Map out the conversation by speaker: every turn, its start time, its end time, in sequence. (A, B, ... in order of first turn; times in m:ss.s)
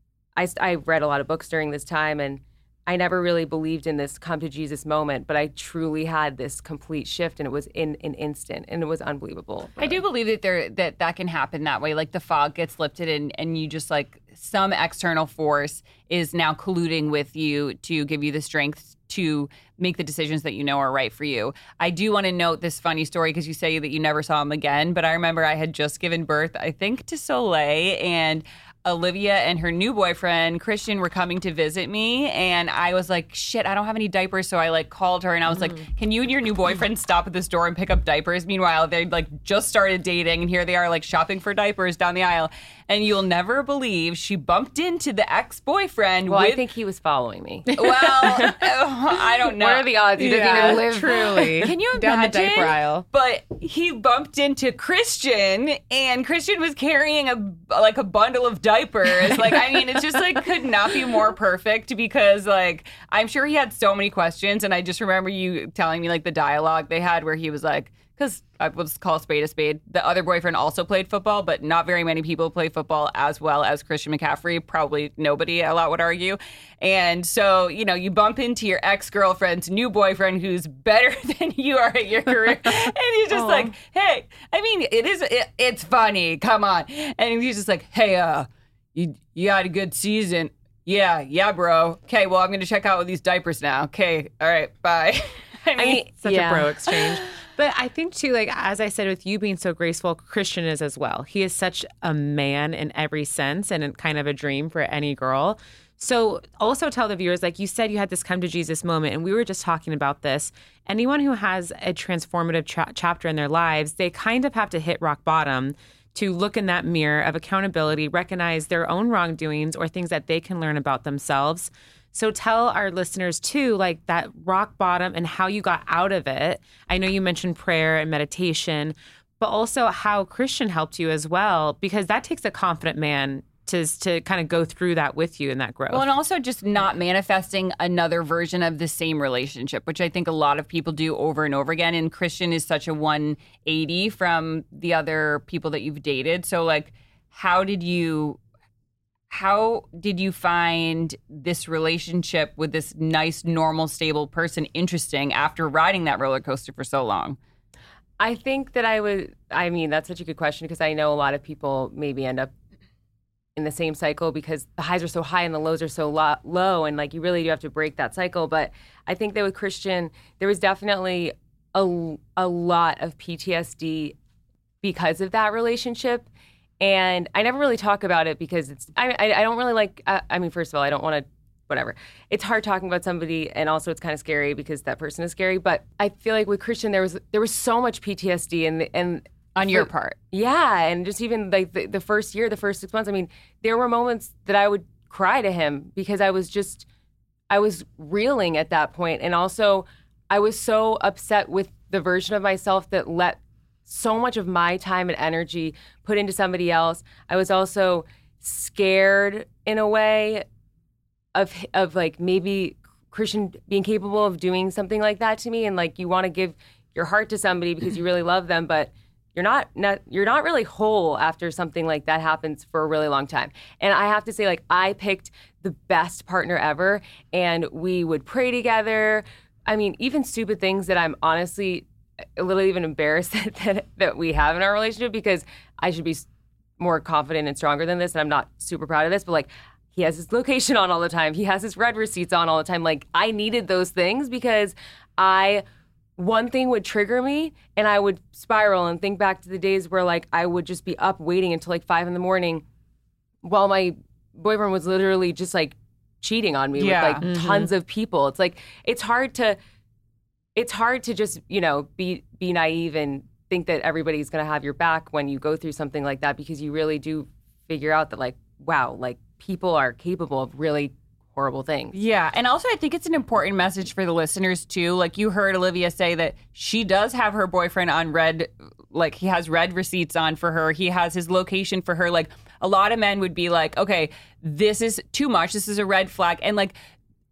0:00.4-0:10.0 A
0:09.8-0:46.6 B
0:46.3-0:48.6 A
0:47.8-1:36.0 B
0:49.6-0:51.6 A
0:50.2-0:53.0 C
1:23.3-1:23.7 A
1:35.8-1:36.7 A
1:35.8-2:16.0 C
2:15.9-2:28.4 B
2:29.3-2:37.4 B
2:38.2-2:42.5 A
2:43.6-2:54.2 A
2:54.8-2:56.3 A
2:56.8-3:16.8 A
3:09.6-3:10.2 B
3:17.5-3:30.4 A
3:31.3-3:51.8 A
3:52.4-3:56.2 A
3:56.8-4:05.6 A
4:06.2-4:12.6 A
4:13.4-4:19.6 A
4:16.8-4:17.3 B
4:17.2-4:17.7 C
4:20.6-4:31.9 A
4:31.9-4:46.7 B